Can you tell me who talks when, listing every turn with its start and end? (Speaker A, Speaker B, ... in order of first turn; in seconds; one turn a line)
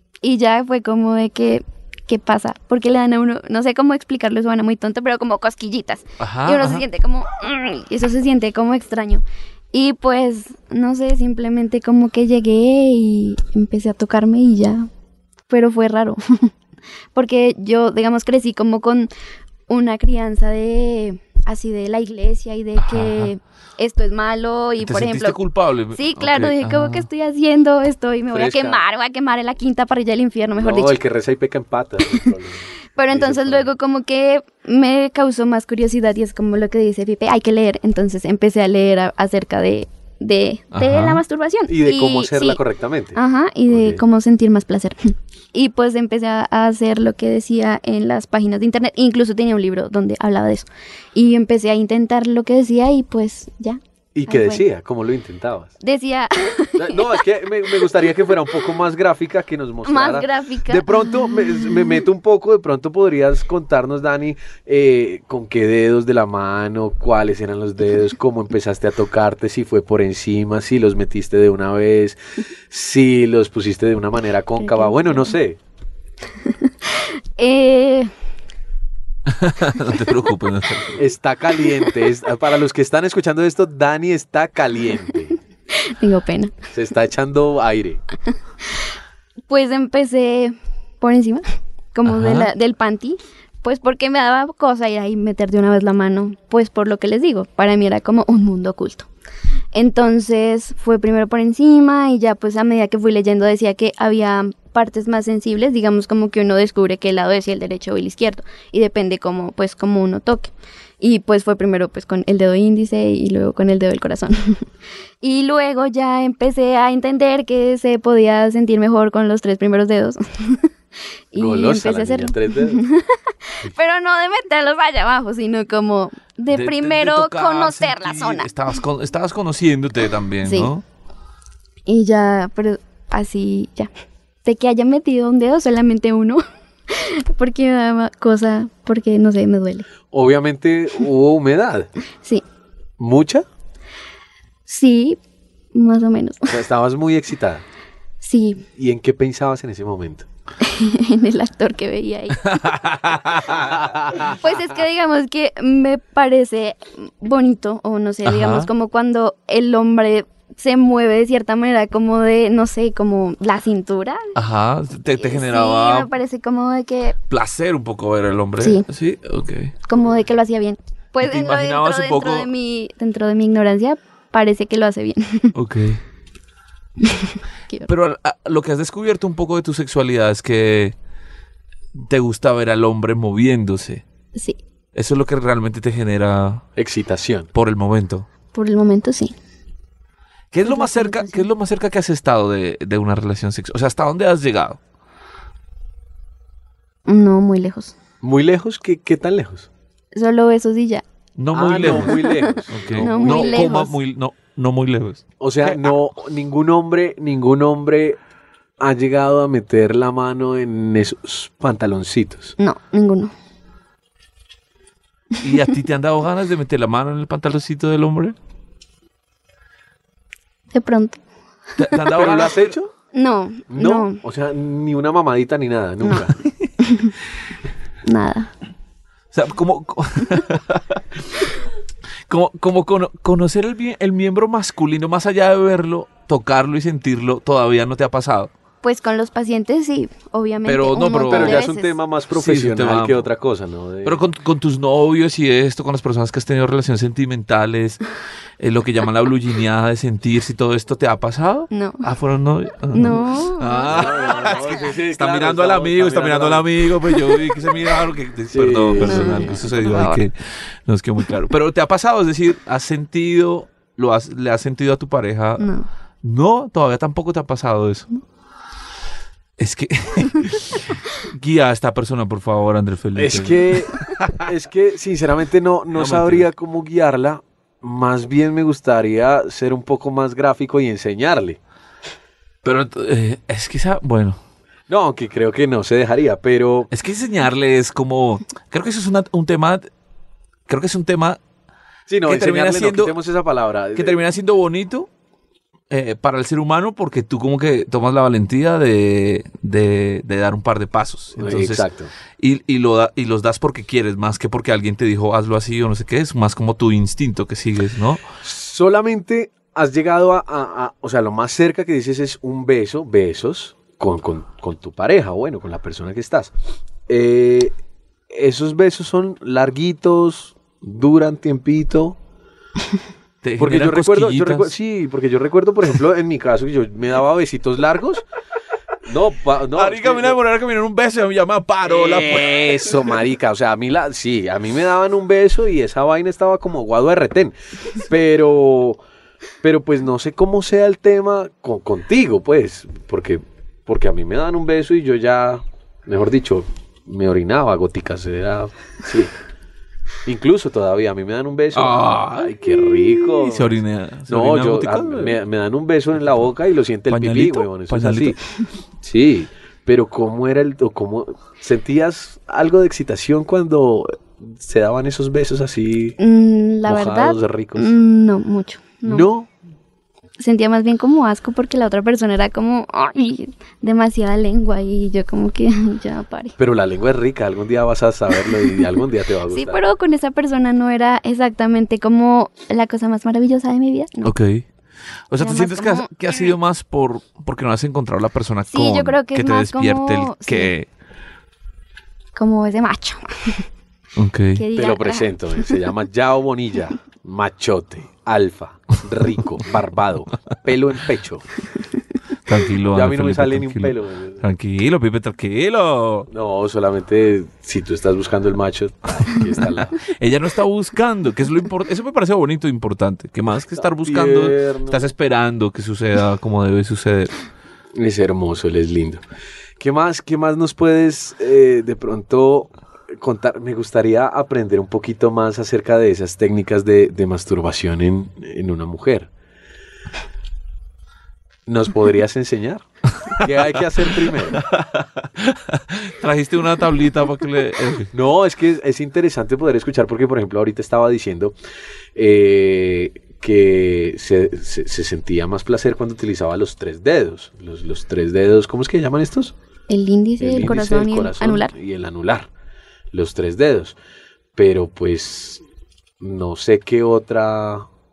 Speaker A: 0.2-14.9
Speaker B: 6.2-6.8
Speaker A: 15.5-16.5
Speaker A: 17.1-19.1
Speaker A: 19.7-25.4
Speaker B: 22.8-23.3
Speaker B: 24.8-27.1
Speaker A: 25.9-31.0
Speaker C: 28.3-28.8
Speaker C: 30.6-33.7
Speaker A: 33.0-42.6
Speaker B: 40.7-41.2
Speaker C: 41.7-43.2
Speaker A: 43.1-54.6
Speaker C: 43.7-44.0
Speaker C: 54.1-55.7
Speaker A: 55.8-57.1
Speaker C: 56.8-72.2
Speaker A: 59.8-61.8
Speaker C: 72.7-75.6
Speaker A: 74.6-75.3
Speaker A: 76.6-78.1
Speaker B: 79.3-81.0
Speaker C: 81.0-85.3
Speaker A: 85.7-86.6
Speaker C: 86.7-88.0
Speaker A: 89.5-99.1
Speaker B: 92.0-92.5
Speaker A: 99.7-114.7
Speaker A: 115.2-120.7
Speaker A: 121.3-128.5
Speaker C: 121.3-122.8
Speaker B: 126.5-130.8
Speaker A: 130.4-130.7
Speaker A: 131.9-133.9
Speaker A: 134.4-139.9
Speaker C: 140.1-141.9
Speaker C: 143.0-143.4
Speaker A: 144.7-145.2
Speaker A: 145.7-146.5
Speaker C: 146.5-147.6
Speaker A: 148.2-148.6
Speaker C: 148.8-150.2
Speaker A: 150.6-152.7
Speaker B: 152.4-153.7
Speaker C: 153.5-154.3
Speaker A: 154.3-164.3
Speaker B: 158.2-158.7
Speaker B: 164.3-166.1
Speaker A: 165.2-167.2
Speaker B: 167.3-169.7
Speaker A: 168.6-168.8
Speaker A: 169.8-175.5
Speaker B: 171.2-172.5
Speaker B: 175.5-176.0
Speaker A: 177.0-177.9
Speaker B: 177.9-180.9
Speaker B: 181.9-184.0
Speaker B: 184.9-186.6
Speaker C: 186.8-187.5
Speaker B: 187.5-188.3
Speaker A: 188.5-189.3
Speaker B: 190.5-194.8
Speaker A: 190.6-191.4
Speaker A: 197.1-197.9
Speaker C: 198.2-199.7
Speaker A: 200.1-201.0
Speaker B: 201.4-205.9
Speaker C: 201.5-203.8
Speaker A: 201.8-203.9
Speaker C: 205.4-208.2
Speaker C: 208.8-212.6
Speaker A: 212.6-213.3
Speaker B: 215.4-218.3
Speaker A: 220.7-221.2
Speaker B: 221.8-222.8
Speaker C: 222.1-222.9
Speaker A: 223.1-224.2
Speaker C: 223.7-226.4
Speaker A: 226.8-227.1
Speaker A: 228.1-228.5
Speaker B: 229.3-231.0
Speaker B: 232.3-238.5
Speaker A: 238.8-241.9
Speaker B: 240.6-241.6
Speaker C: 241.2-244.2
Speaker B: 242.3-243.3
Speaker B: 244.0-248.0
Speaker B: 248.6-265.6
Speaker A: 251.7-252.0
Speaker A: 252.9-253.9
Speaker C: 253.9-257.6
Speaker C: 258.5-259.6
Speaker A: 259.0-260.2
Speaker A: 265.6-265.9
Speaker B: 266.2-268.1
Speaker B: 269.6-274.4
Speaker C: 273.1-281.6
Speaker B: 275.9-276.5
Speaker B: 282.6-284.4
Speaker C: 284.9-286.9
Speaker B: 286.9-289.9
Speaker B: 290.7-291.4
Speaker C: 292.1-294.2
Speaker B: 292.2-293.1
Speaker B: 293.9-295.1
Speaker B: 295.9-301.9
Speaker C: 301.4-302.1
Speaker B: 302.4-308.2
Speaker C: 308.4-316.5
Speaker C: 317.1-317.7
Speaker C: 318.3-322.2
Speaker B: 323.4-324.7
Speaker C: 323.6-328.2
Speaker C: 329.0-330.4
Speaker B: 329.7-333.1
Speaker C: 331.8-339.0
Speaker C: 339.6-349.3
Speaker C: 350.2-358.4
Speaker B: 351.7-355.4
Speaker B: 357.1-358.4
Speaker C: 359.0-366.2
Speaker A: 366.2-369.3
Speaker C: 366.9-367.9
Speaker C: 369.0-369.5
Speaker A: 370.4-376.6
Speaker C: 376.6-379.8
Speaker A: 379.5-384.3
Speaker B: 384.2-384.6
Speaker B: 385.3-390.9
Speaker A: 385.4-386.4
Speaker A: 388.7-390.7
Speaker A: 392.3-393.6
Speaker B: 394.1-394.6
Speaker A: 394.5-395.7
Speaker C: 394.7-401.4
Speaker B: 402.4-406.3
Speaker C: 402.9-404.4
Speaker C: 406.3-410.0
Speaker B: 409.6-417.3
Speaker C: 413.8-415.1
Speaker C: 417.9-419.2
Speaker C: 419.8-429.3
Speaker C: 431.7-432.8
Speaker C: 433.4-434.6
Speaker B: 434.3-438.1
Speaker C: 438.1-441.5
Speaker C: 442.1-449.5
Speaker A: 449.9-451.7
Speaker C: 450.4-452.5
Speaker C: 453.1-453.9
Speaker C: 454.5-455.6
Speaker C: 456.2-457.9